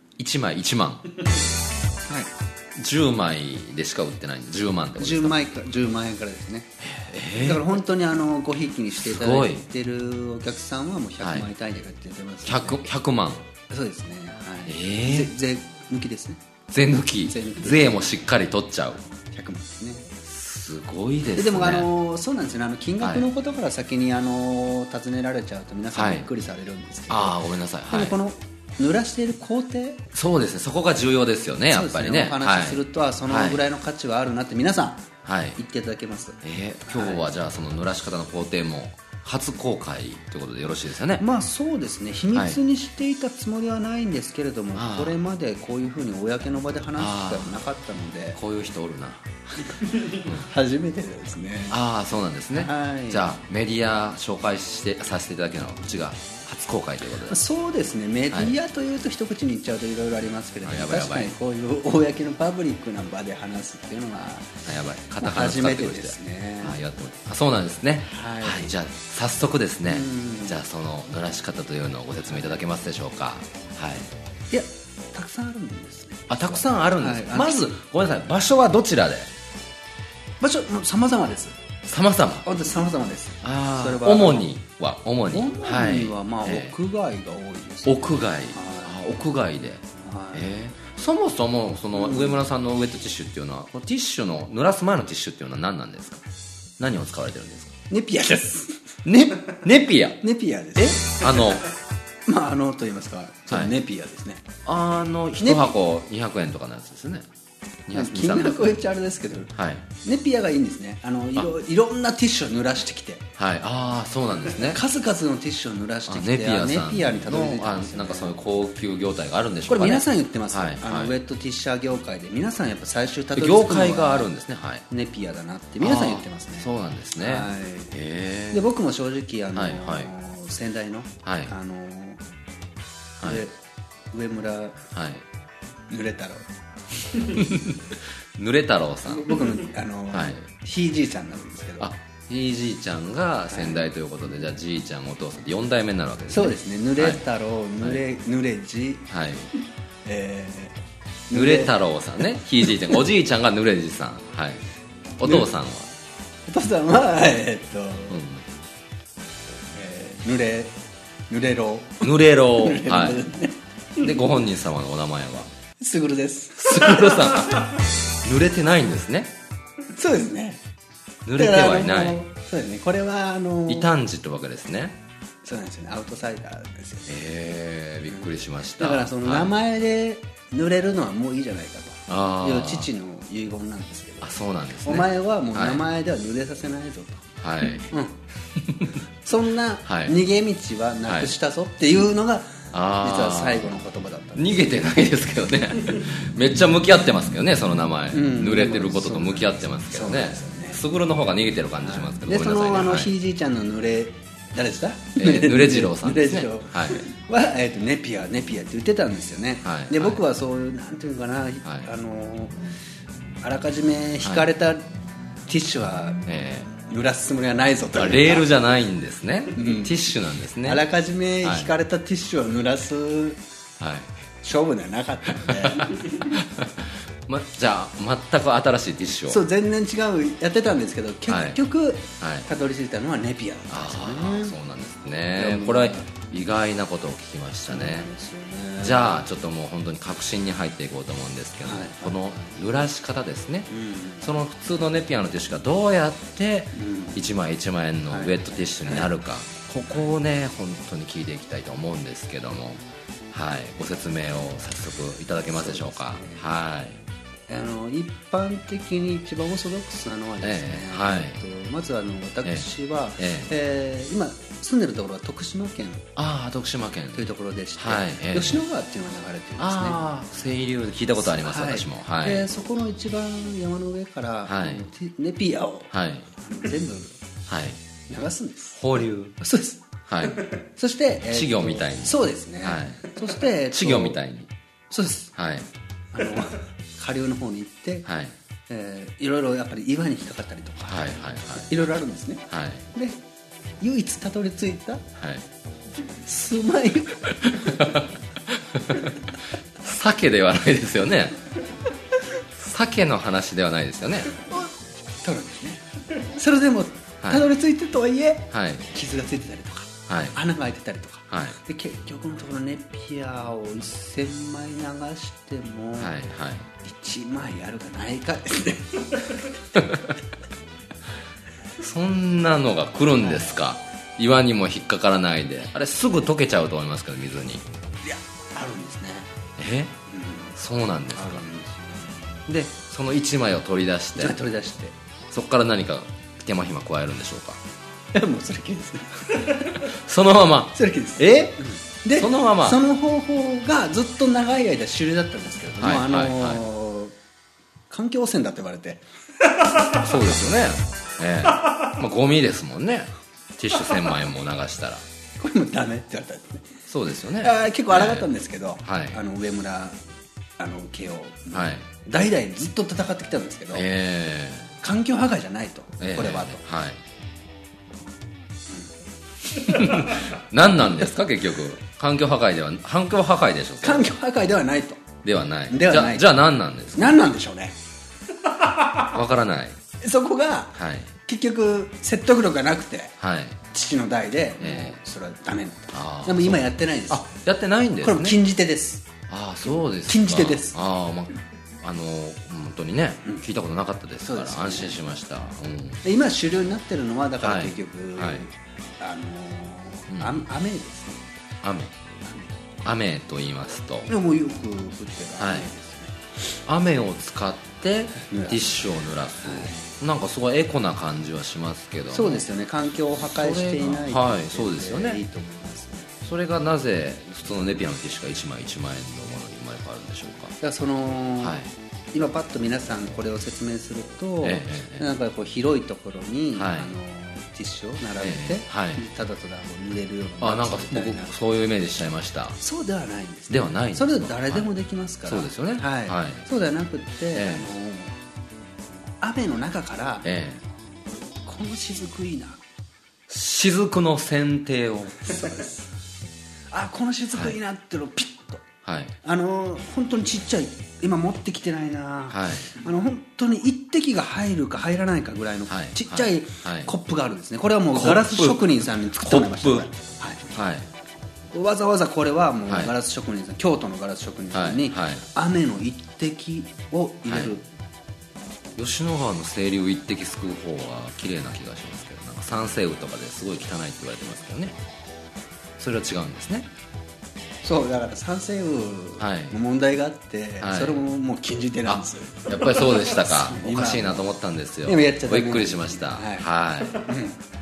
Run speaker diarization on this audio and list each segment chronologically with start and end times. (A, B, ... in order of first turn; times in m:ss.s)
0:00.2-0:01.2 A
0:02.8-0:05.4 A
0:05.0-0:06.7 B
0:06.8-0:07.8 A
0:07.4-0:12.8 B
0:09.0-0:09.6 A
0:11.2-0:11.5 A
0:12.4-0:13.5 A
0:13.7-0:16.4 B
0:14.6-0:15.3 A
0:16.7-0:19.0 A
0:17.2-0:18.1 B
0:19.3-0:20.1 B
0:20.2-0:21.9 A
0:21.4-0:30.0 B
0:23.0-0:23.3 A
0:25.9-0:26.3 A
0:27.1-0:28.2 A
0:30.1-0:33.6 A
0:31.7-0:37.3 B
0:35.2-0:35.6 A
0:36.4-0:41.2 A
0:41.2-0:48.4 B
0:42.3-0:42.6 A
0:44.7-0:45.2 A
0:47.0-0:47.6 A
0:48.3-0:50.4 A
0:50.0-0:51.8 B
0:51.7-0:57.4 A
0:52.5-0:53.3 B
0:57.3-1:04.6 B
1:00.6-1:01.3 A
1:04.6-1:14.1 A
1:05.2-1:06.8 B
1:08.0-1:08.8 B
1:09.9-1:10.6 B
1:12.3-1:12.6 B
1:14.5-1:17.7 B
1:16.3-1:19.3 A
1:20.4-1:21.6 B
1:21.8-1:22.5 A
1:22.4-1:24.5 B
1:23.4-1:26.8 A
1:25.3-1:29.0 B
1:27.8-1:36.2 A
1:30.0-1:30.5 B
1:31.9-1:32.4 B
1:36.8-1:37.7 A
1:37.9-1:39.5 B
1:39.0-1:40.2 A
1:40.2-1:41.6 B
1:41.0-1:41.7 A
1:42.2-1:44.4 B
1:44.6-1:47.3 A
1:45.4-1:45.7 B
1:47.9-1:48.8 A
1:47.9-1:53.2 B
1:49.5-1:49.8 A
1:53.4-1:54.8 A
1:54.5-1:58.4 B
1:56.1-2:01.2 A
1:59.7-2:04.3 B
2:03.3-2:04.8 A
2:04.9-2:07.9 B
2:05.8-2:08.7 A
2:08.5-2:12.2 B
2:09.5-2:10.1 A
2:11.2-2:11.5 A
2:13.2-2:13.4 A
2:13.2-2:13.5 B
2:14.1-2:14.8 B
2:14.9-2:15.2 A
2:15.9-2:16.5 B
2:17.3-2:17.7 A
2:18.4-2:19.4 A
2:19.0-2:21.9 B
2:20.1-2:20.5 A
2:21.8-2:27.2 A
2:23.5-2:23.9 B
2:26.3-2:29.1 B
2:29.1-2:29.5 A
2:30.0-2:30.8 B
2:31.3-2:31.7 B
2:31.3-2:34.6 A
2:35.2-2:35.9 A
2:36.5-2:38.2 B
2:38.1-2:38.4 A
2:39.7-2:40.8 B
2:41.3-2:44.1 B
2:42.0-2:43.3 A
2:44.0-2:45.5 A
2:45.8-2:47.3 B
2:46.6-2:49.3 A
2:50.0-2:50.6 B
2:51.2-2:52.2 A
2:51.4-2:53.9 B
2:53.7-2:55.0 A
2:55.4-2:57.1 B
2:57.1-2:59.5 A
2:58.1-3:04.3 B
3:02.1-3:02.9 A
3:04.2-3:05.8 A
3:04.8-3:07.3 B
3:07.4-3:07.9 A
3:07.8-3:08.2 B
3:09.2-3:14.7 B
3:09.8-3:10.2 A
3:11.0-3:11.3 A
3:12.7-3:13.8 A
3:14.4-3:23.1 A
3:18.1-3:20.8 B
3:21.8-3:32.6 B
3:25.2-3:27.0 A
3:29.6-3:30.2 A
3:31.6-3:31.9 A
3:33.4-3:34.8 B
3:34.2-3:34.5 A
3:35.4-3:36.2 B
3:36.2-3:36.7 A
3:36.8-3:38.5 B
3:37.9-3:40.8 A
3:39.5-3:40.1 B
3:40.6-3:43.4 B
3:41.4-3:41.7 A
3:43.8-3:44.1 A
3:44.4-3:46.0 B
3:45.7-3:49.4 A
3:49.3-3:54.5 B
3:51.3-3:51.6 A
3:52.2-3:52.5 A
3:53.7-3:58.1 A
3:55.4-3:56.1 B
3:57.7-3:59.3 B
3:58.8-4:03.7 A
4:01.6-4:02.2 B
4:03.7-4:04.3 B
4:04.2-4:12.8 A
4:06.7-4:07.3 B
4:08.1-4:09.1 B
4:13.3-4:17.0 A
4:15.5-4:16.4 B
4:17.5-4:26.0 B
4:20.4-4:21.4 A
4:22.4-4:23.5 A
4:26.2-4:28.6 A
4:27.1-4:30.0 B
4:29.6-4:32.5 A
4:31.3-4:37.2 B
4:34.4-4:34.9 A
4:35.9-4:36.3 A
4:37.5-4:37.8 A
4:38.1-4:39.8 B
4:38.8-4:39.4 A
4:40.1-4:40.4 A
4:40.5-4:44.2 B
4:41.3-4:44.5 A
4:44.9-4:45.3 B
4:45.3-4:45.7 A
4:46.1-4:48.1 B
4:48.0-4:48.3 A
4:48.7-4:53.2 B
4:50.8-4:51.8 A
4:52.5-4:52.9 A
4:53.8-4:55.0 B
4:55.2-4:55.4 A
4:56.2-4:57.8 B
4:57.6-4:58.0 A
4:58.7-4:59.2 A
4:59.8-5:01.4 A
5:02.6-5:04.4 A
5:05.2-5:16.2 B
5:07.2-5:07.5 A
5:08.5-5:08.9 A
5:10.1-5:10.4 A
5:11.3-5:11.6 A
5:16.0-5:16.7 A
5:16.8-5:19.4 B
5:21.8-5:27.6 A
5:23.2-5:23.6 B
5:28.0-5:29.3 B
5:29.6-5:30.0 A
5:30.1-5:30.6 B
5:30.5-5:31.4 A
5:31.1-5:32.2 B
5:32.5-5:34.4 A
5:34.2-5:34.9 B
5:35.3-5:37.6 A
5:38.1-5:39.8 B
5:39.6-5:41.5 A
5:40.7-5:47.1 B
5:42.1-5:42.8 A
5:45.8-5:46.6 A
5:47.9-5:49.0 B
5:49.9-5:55.0 A
5:55.4-5:56.6 B
5:56.9-5:59.2 A
5:57.4-6:00.0 B
6:00.6-6:03.8 B
6:01.5-6:01.9 A
6:03.7-6:04.7 A
6:04.8-6:06.6 B
6:06.0-6:07.0 A
6:09.6-6:14.1 A
6:13.8-6:15.0 B
6:15.2-6:17.3 A
6:15.7-6:16.3 B
6:16.9-6:17.7 B
6:19.0-6:19.8 A
6:20.0-6:23.1 B
6:20.7-6:21.1 A
6:23.2-6:23.6 A
6:23.7-6:27.3 B
6:24.6-6:25.0 A
6:25.9-6:28.4 A
6:28.0-6:29.0 B
6:29.3-6:36.0 A
6:30.0-6:30.8 B
6:34.2-6:35.0 B
6:36.0-6:41.2 B
6:37.4-6:38.5 A
6:40.1-6:40.4 A
6:41.6-6:41.9 A
6:42.2-6:42.5 B
6:42.8-6:44.1 A
6:44.1-6:46.1 B
6:45.4-6:45.7 A
6:46.6-6:52.4 A
6:48.2-6:48.8 B
6:49.4-6:49.8 B
6:52.1-6:56.1 B
6:53.2-6:55.2 A
6:56.2-7:00.6 A
7:00.6-7:01.6 B
7:01.4-7:01.7 A
7:02.1-7:11.3 B
7:04.4-7:05.1 A
7:06.5-7:06.9 A
7:08.2-7:09.0 A
7:10.4-7:12.6 A
7:12.6-7:18.1 B
7:13.5-7:14.7 A
7:15.2-7:16.5 A
7:17.3-7:17.7 A
7:19.2-7:20.3 B
7:20.2-7:20.6 A
7:21.4-7:22.6 B
7:23.3-7:25.6 A
7:25.3-7:25.8 B
7:26.7-7:28.6 B
7:28.8-7:29.1 A
7:29.2-7:40.4 B
7:32.3-7:32.7 A
7:35.7-7:36.9 A
7:37.9-7:39.9 A
7:40.5-7:40.9 A
7:41.5-7:47.6 B
7:42.7-7:42.9 A
7:44.5-7:45.3 A
7:47.3-7:47.5 A
7:48.8-7:54.8 A
7:55.8-7:56.7 A
7:57.6-8:04.3 B
7:59.2-7:59.6 A
8:00.6-8:01.0 A
8:01.8-8:07.1 A
8:04.8-8:07.4 B